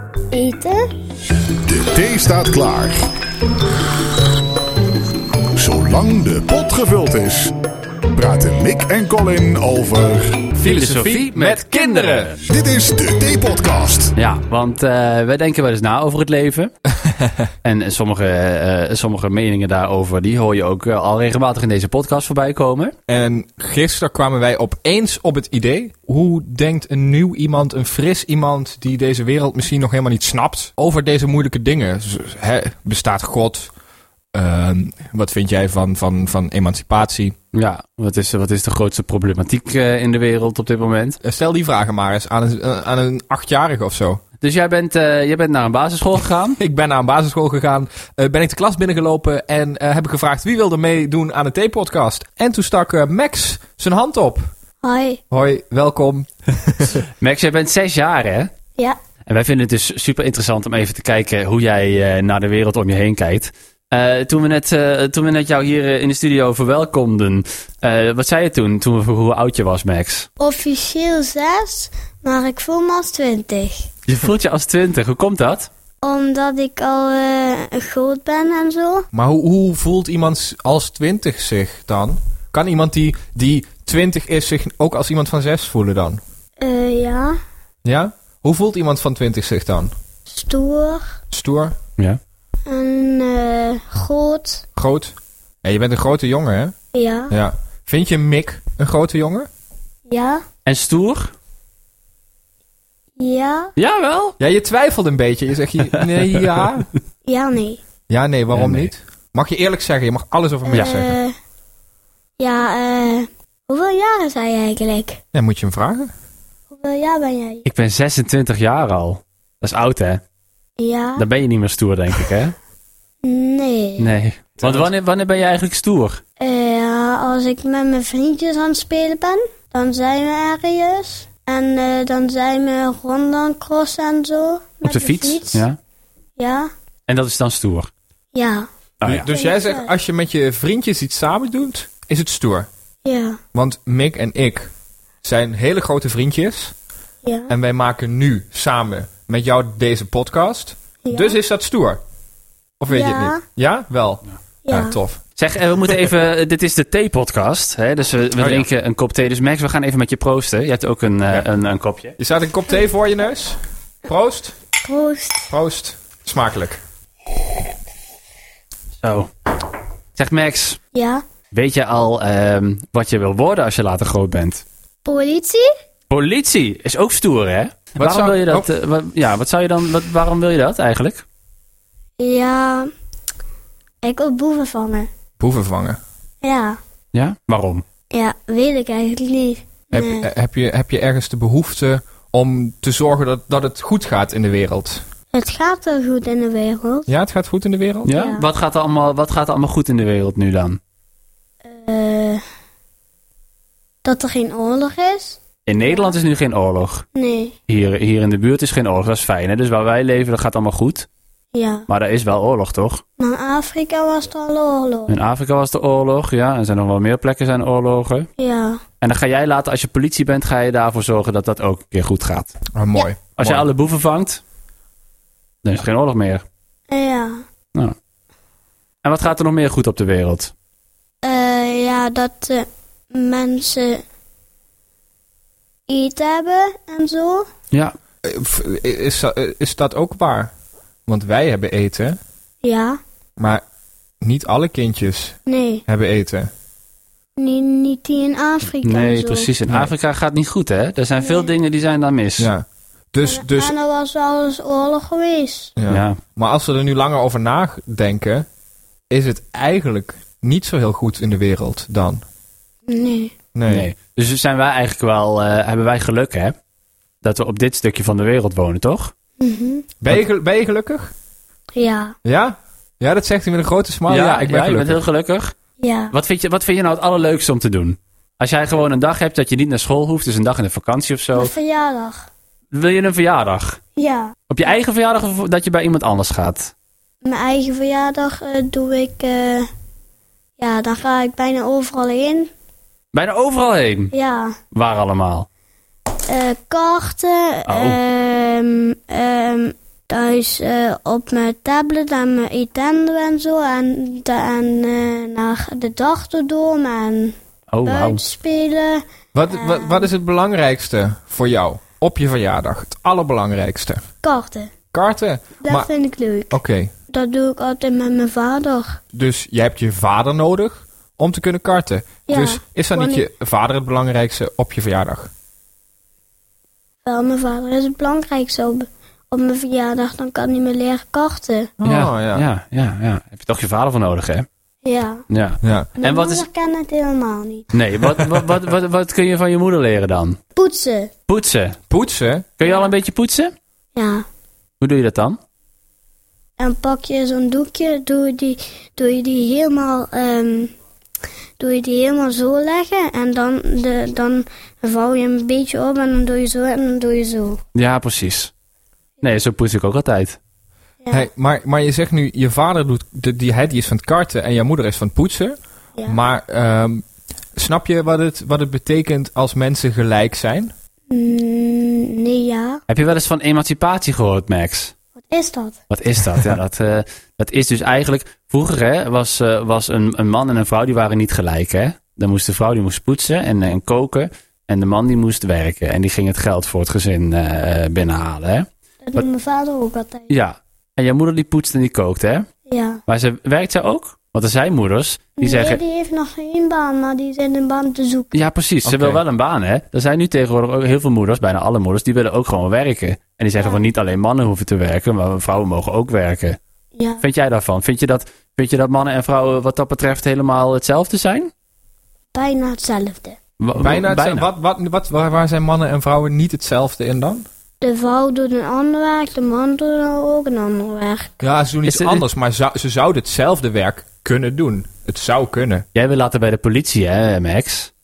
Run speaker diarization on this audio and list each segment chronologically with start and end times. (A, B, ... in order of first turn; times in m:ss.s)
0:00.3-0:00.9 A
0:01.6-0:03.0 B
0:05.6-0:07.6 B
0:08.1-0:10.5 B
0:10.6-0:12.3 C
0:10.6-0:12.4 D
0:12.5-0:14.1 B
0:14.2-0:16.7 D
0:17.0-0:17.5 C
0:17.6-0:22.9 D
0:23.1-0:33.7 C
0:34.3-0:37.4 C
0:37.5-0:41.2 D
0:41.2-0:44.2 C
0:44.4-0:46.6 D
0:46.6-0:54.5 C
0:54.8-0:55.2 A
0:55.3-0:57.0 C
0:57.2-0:58.5 D
0:59.3-1:10.3 D
1:10.4-1:13.9 A
1:14.1-1:15.7 D
1:16.0-1:19.1 A
1:19.1-1:26.2 C
1:26.6-1:27.4 A
1:27.8-1:29.9 C
1:30.3-1:31.2 A
1:31.3-1:31.8 C
1:32.7-1:34.6 A
1:34.8-1:36.8 C
1:36.9-1:37.4 A
1:37.3-1:39.5 C
1:40.1-1:40.4 A
1:40.6-1:41.3 D
1:43.2-1:43.7 A
1:43.8-1:44.4 D
1:44.4-1:46.9 C
1:47.3-1:47.8 A
1:48.1-1:51.1 C
1:48.5-1:48.9 D
1:50.7-1:51.4 A
1:52.4-1:55.2 A
1:55.3-1:56.1 C
1:56.7-1:57.7 A
1:57.7-2:00.2 D
2:00.8-2:01.3 A
2:01.2-2:02.6 D
2:03.2-2:04.1 A
2:04.0-2:06.2 D
2:04.6-2:04.9 C
2:06.4-2:15.6 A
2:14.8-2:15.8 D
2:16.4-2:16.7 A
2:17.1-2:17.9 D
2:18.3-2:18.7 A
2:19.0-2:19.3 D
2:19.0-2:22.7 C
2:19.3-2:19.9 A
2:23.0-2:23.4 A
2:23.5-2:24.7 C
2:25.2-2:26.8 C
2:27.2-2:27.5 A
2:27.5-2:32.0 C
2:31.0-2:31.4 A
2:32.8-2:35.2 C
2:32.9-2:33.4 A
2:34.6-2:35.0 A
2:35.4-2:42.2 D
2:38.4-2:38.7 C
2:42.2-2:44.6 C
2:44.8-2:45.5 A
2:45.5-2:46.8 C
2:49.0-2:49.3 D
2:50.2-2:50.8 D
2:51.0-2:51.2 A
2:51.5-2:54.6 D
2:55.0-2:55.7 A
2:56.1-3:01.2 D
2:58.0-2:58.7 C
3:02.2-3:02.9 A
3:04.0-3:05.1 A
3:05.4-3:06.0 C
3:06.4-3:06.8 A
3:07.1-3:07.8 D
3:08.1-3:10.3 A
3:09.9-3:15.0 C
3:15.3-3:17.1 A
3:17.1-3:18.2 C
3:18.1-3:20.8 D
3:18.1-3:18.5 A
3:21.7-3:22.4 A
3:24.0-3:26.2 A
3:25.7-3:27.0 D
3:27.2-3:27.6 A
3:27.7-3:31.1 D
3:31.5-3:31.9 A
3:31.9-3:33.0 D
3:33.2-3:35.2 A
3:35.1-3:38.3 D
3:38.4-3:38.8 A
3:39.0-3:42.5 D
3:42.7-3:43.7 C
3:43.4-3:44.4 D
3:45.6-3:46.4 D
3:46.9-3:47.4 A
3:49.0-3:50.5 D
3:51.2-3:54.0 A
3:55.9-3:57.5 A
3:58.2-4:00.5 C
4:01.1-4:02.2 C
4:02.6-4:03.0 A
4:03.4-4:03.6 C
4:04.2-4:06.5 C
4:05.5-4:05.8 A
4:07.4-4:09.5 A
4:08.8-4:12.5 D
4:11.2-4:11.5 A
4:12.4-4:13.8 C
4:13.2-4:15.7 A
4:15.8-4:18.5 C
4:15.9-4:16.2 D
4:19.1-4:22.2 C
4:22.9-4:23.3 A
4:23.5-4:23.9 C
4:23.7-4:26.6 D
4:27.2-4:29.1 D
4:29.4-4:29.9 A
4:30.0-4:31.1 C
4:31.8-4:32.2 A
4:32.2-4:35.0 C
4:34.1-4:35.5 D
4:35.8-4:36.2 A
4:36.1-4:41.5 D
4:41.4-4:42.3 A
4:42.7-4:43.8 D
4:44.0-4:44.4 A
4:44.5-4:46.7 D
4:47.2-4:49.7 A
4:50.6-4:52.5 A
4:53.1-4:54.1 D
4:54.1-4:54.6 A
4:54.7-4:55.5 D
4:56.3-5:10.1 A
4:57.7-4:58.0 D
5:07.7-5:08.2 D
5:09.3-5:14.0 C
5:14.2-5:14.7 A
5:14.9-5:15.9 C
5:15.6-5:16.6 A
5:16.5-5:16.9 C
5:17.1-5:19.0 A
5:19.1-5:25.3 C
5:22.3-5:23.3 A
5:27.0-5:31.7 A
5:31.8-5:32.5 C
5:31.8-5:34.5 D
5:34.8-5:35.2 A
5:35.3-5:36.4 D
5:35.6-5:35.9 C
5:36.0-5:37.7 A
5:37.7-5:40.4 D
5:40.6-5:41.1 A
5:41.3-5:41.8 D
5:41.9-5:42.5 C
5:42.6-5:43.5 D
5:42.6-5:42.9 A
5:44.0-5:44.3 A
5:44.8-5:45.4 D
5:46.6-5:50.7 A
5:51.6-5:57.6 A
5:57.8-5:58.5 D
5:59.2-6:00.4 D
6:01.1-6:07.0 C
6:07.6-6:10.7 C
6:11.1-6:12.8 A
6:12.9-6:14.9 D
6:15.3-6:15.8 A
6:15.9-6:29.3 D
6:29.0-6:30.3 A
6:30.3-6:32.5 D
6:32.7-6:33.0 A
6:33.1-6:35.8 D
6:35.4-6:38.5 A
6:38.3-6:46.6 D
6:38.8-6:39.2 C
6:43.6-6:43.8 A
6:47.0-6:47.2 A
6:47.2-6:51.5 D
6:52.3-6:53.4 A
6:53.6-6:54.5 D
6:53.8-6:57.4 C
6:57.8-7:01.3 A
7:01.4-7:05.8 C
7:01.9-7:02.2 D
7:06.0-7:07.9 D